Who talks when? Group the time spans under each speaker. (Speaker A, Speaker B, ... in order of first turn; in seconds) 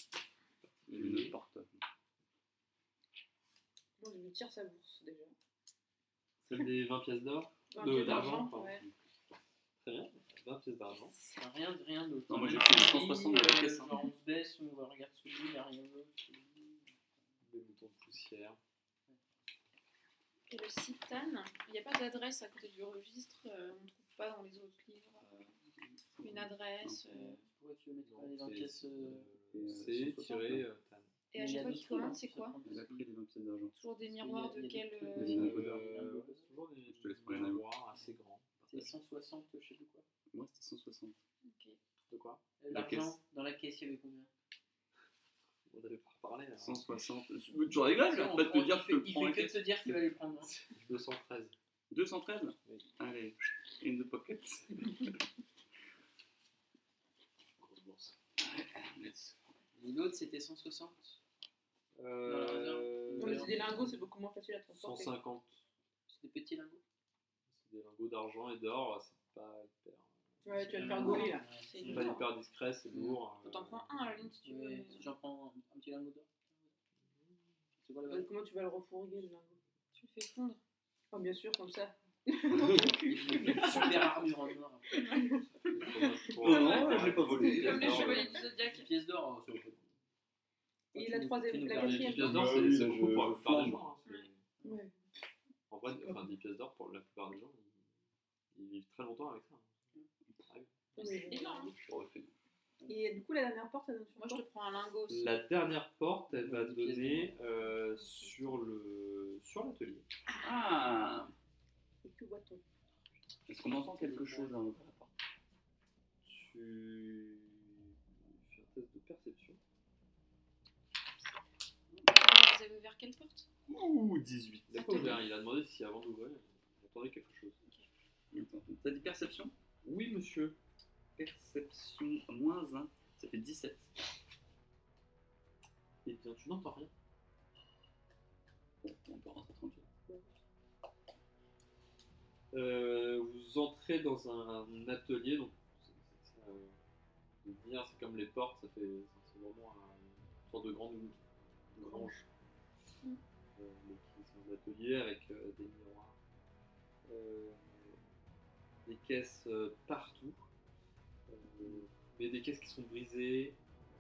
Speaker A: 0.6-1.4, 6.4-8.8, 9.8-11.2, 17.4-18.6, 28.1-31.1, 35.2-38.9, 42.1-42.4, 45.7-46.8, 50.7-51.5, 57.6-58.1, 62.0-63.7, 64.7-65.6, 67.5-70.1, 71.8-74.3, 85.7-88.4, 91.6-94.4, 95.7-97.8, 98.5-99.7, 100.5-100.7, 105.1-110.1, 116.2-119.6, 124.7-127.6, 129.8-130.6, 136.1-136.9, 142.5-146.8, 147.4-152.3, 153.6-156.2, 157.1-158.0, 158.8-160.4, 161.3-163.6
Speaker B: 0.9-1.7, 8.0-8.9, 12.3-14.0, 26.1-27.1, 29.5-30.6, 32.6-33.7, 35.1-35.9, 36.9-37.6, 40.3-41.2, 42.7-43.1, 46.6-49.8, 51.9-55.1, 58.4-59.4, 86.4-88.3, 91.9-93.9, 101.8-102.3, 110.4-111.3, 113.5-115.1, 123.7-125.1, 128.3-129.5, 131.2-133.9, 138.8-139.9
Speaker C: 4.0-5.3, 7.7-8.8, 63.2-65.1, 70.4-71.5, 78.1-79.6, 81.1-84.3, 84.9-86.7, 90.9-92.4, 94.6-94.9, 100.9-101.7, 102.9-104.4, 112.0-112.6, 140.1-140.3, 151.8-152.1
Speaker D: 11.4-16.9, 27.1-29.3, 31.3-33.1, 34.1-36.5, 38.7-40.0, 42.6-44.3, 47.9-50.5, 59.8-61.2, 62.2-64.0, 66.1-66.8, 70.5-72.1, 72.9-73.2, 74.4-76.7, 77.8-78.3, 83.0-85.4, 87.6-89.9, 90.9-92.5, 106.3-107.4, 113.9-114.6
Speaker E: 20.5-25.5, 26.2-27.4, 31.3-32.6, 33.8-35.5, 41.4-41.8, 70.9-72.2, 73.4-75.1, 79.9-80.6, 84.9-85.3, 86.5-88.9, 101.0-101.7, 104.2-105.4, 107.7-108.6, 122.1-123.5, 124.7-125.2